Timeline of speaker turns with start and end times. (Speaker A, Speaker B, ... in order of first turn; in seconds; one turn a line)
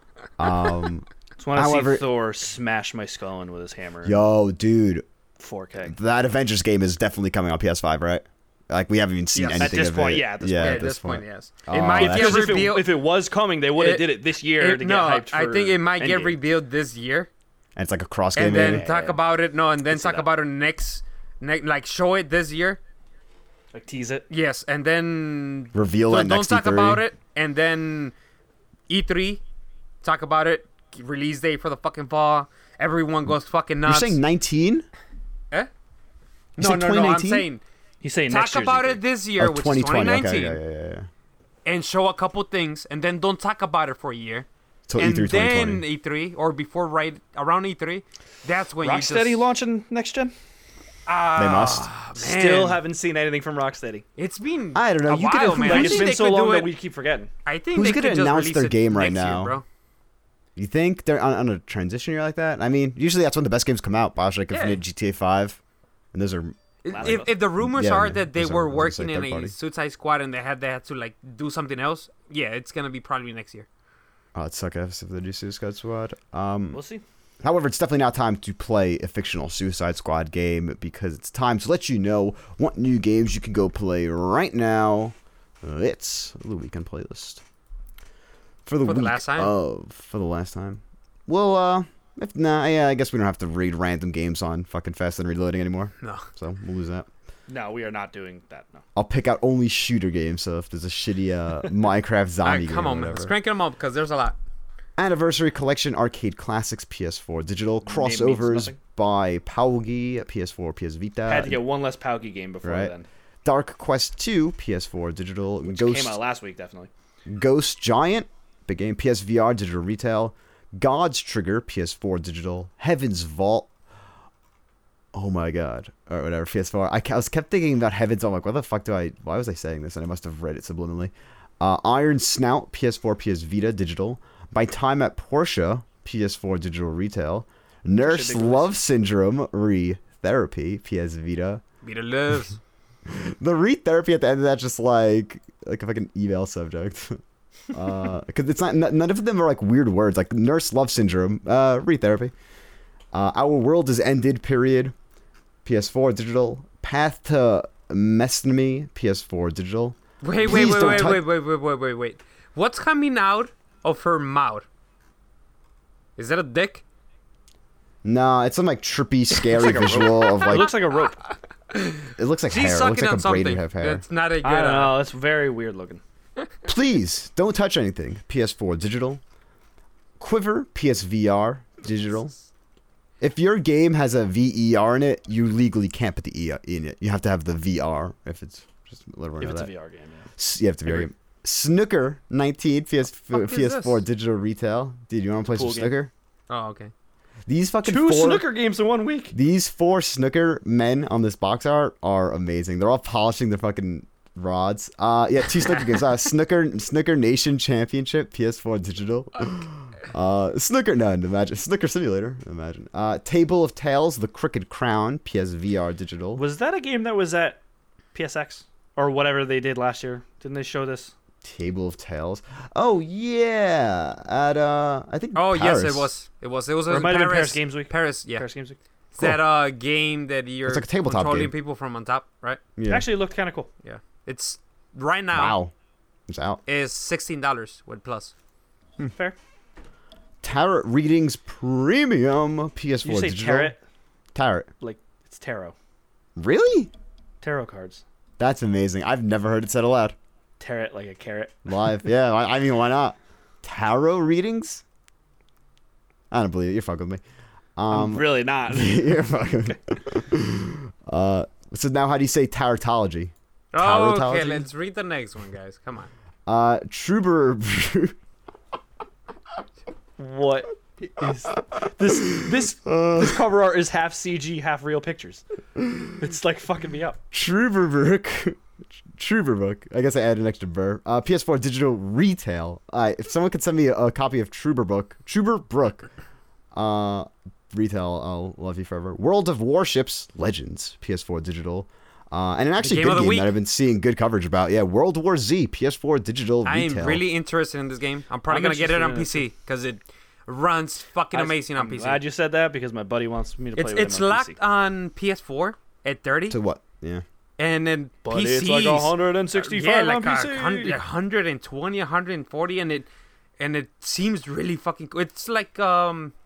Speaker A: 0.4-2.1
Speaker B: 1.4-4.2
Speaker A: 4.0-5.0
Speaker B: 5.4-6.0
Speaker A: 5.8-12.7
Speaker C: 9.3-9.8
Speaker B: 9.6-10.8
Speaker C: 10.6-12.9
Speaker B: 11.9-16.4
Speaker C: 13.8-17.3
Speaker A: 17.8-18.9
Speaker C: 18.4-22.8
Speaker B: 18.5-19.2
Speaker B: 23.7-24.3
Speaker C: 24.3-28.1
Speaker A: 25.7-27.0
Speaker C: 28.9-29.4
Speaker C: 30.0-34.2
Speaker A: 33.9-34.9
Speaker A: 36.6-37.5
Speaker C: 36.6-37.6
Speaker B: 38.0-39.0
Speaker C: 38.3-40.6
Speaker A: 39.4-41.1
Speaker C: 41.6-49.5
Speaker A: 44.9-45.8
Speaker B: 48.8-50.3
Speaker C: 51.1-52.8
Speaker A: 51.4-51.9
Speaker B: 52.1-54.0
Speaker C: 54.2-56.7
Speaker A: 54.7-56.1
Speaker B: 55.6-57.3
Speaker C: 57.4-59.6
Speaker A: 57.7-59.6
Speaker A: 60.5-65.6
Speaker C: 64.5-64.8
Speaker A: 66.1-69.5
Speaker C: 66.8-73.7
Speaker B: 66.9-67.4
Speaker A: 74.3-76.8
Speaker B: 76.7-77.0
Speaker A: 77.4-87.4
Speaker A: 88.7-97.1
Speaker C: 88.8-89.5
Speaker C: 96.0-96.3
Speaker B: 97.5-98.8
Speaker A: 99.0-103.3
Speaker C: 102.4-104.4
Speaker A: 105.0-111.6
Speaker B: 107.8-108.8
Speaker B: 111.3-113.0
Speaker A: 112.6-112.9
Speaker A: 113.4-116.2
Speaker B: 115.7-116.9
Speaker A: 117.3-123.7
Speaker A: 125.1-141.6
Speaker B: 138.0-138.7
Speaker C: 141.8-142.6
Speaker A: 143.1-147.2
Speaker A: 147.7-152.3
Speaker A: 153.1-154.9
Speaker A: 155.6-161.2
Speaker C: 160.2-164.7
Speaker C: 166.2-166.8
Speaker A: 168.0-170.7
Speaker B: 169.4-171.2
Speaker C: 171.7-174.9
Speaker A: 172.2-174.0
Speaker B: 174.4-176.0
Speaker A: 176.7-179.2
Speaker A: 180.2-182.3
Speaker A: 183.2-189.7
Speaker B: 189.4-190.3
Speaker A: 190.4-196.1
Speaker C: 193.3-194.0
Speaker B: 195.5-195.9
Speaker C: 196.5-196.9
Speaker A: 197.5-198.4
Speaker B: 197.8-199.3
Speaker A: 199.3-216.4
Speaker B: 216.3-217.6
Speaker B: 218.1-221.1
Speaker A: 221.4-226.1
Speaker C: 225.3-228.4
Speaker B: 226.9-228.8
Speaker C: 229.1-232.6
Speaker A: 230.7-231.5
Speaker A: 232.8-233.1
Speaker B: 232.9-233.7
Speaker C: 233.8-235.6
Speaker A: 235.3-235.7
Speaker A: 236.3-236.6
Speaker C: 236.7-238.3
Speaker B: 239.0-239.3
Speaker A: 240.4-243.7
Speaker B: 243.0-243.8
Speaker A: 244.3-244.7
Speaker B: 244.8-245.7
Speaker A: 246.4-246.9
Speaker B: 247.4-248.0
Speaker A: 248.4-250.2
Speaker B: 250.6-251.5
Speaker A: 251.7-254.8
Speaker A: 256.3-257.2
Speaker A: 257.8-264.7
Speaker B: 257.9-259.5
Speaker C: 263.7-266.1
Speaker A: 266.5-268.1
Speaker B: 270.2-275.4
Speaker A: 272.3-273.4
Speaker A: 275.8-276.0
Speaker B: 276.1-277.2
Speaker A: 277.3-286.1
Speaker A: 286.7-297.2
Speaker C: 292.8-293.5
Speaker C: 296.6-302.2
Speaker B: 298.5-299.4
Speaker B: 301.3-304.6
Speaker C: 303.8-306.6
Speaker A: 306.5-307.2
Speaker C: 307.6-313.1
Speaker B: 308.2-311.0
Speaker C: 313.6-316.3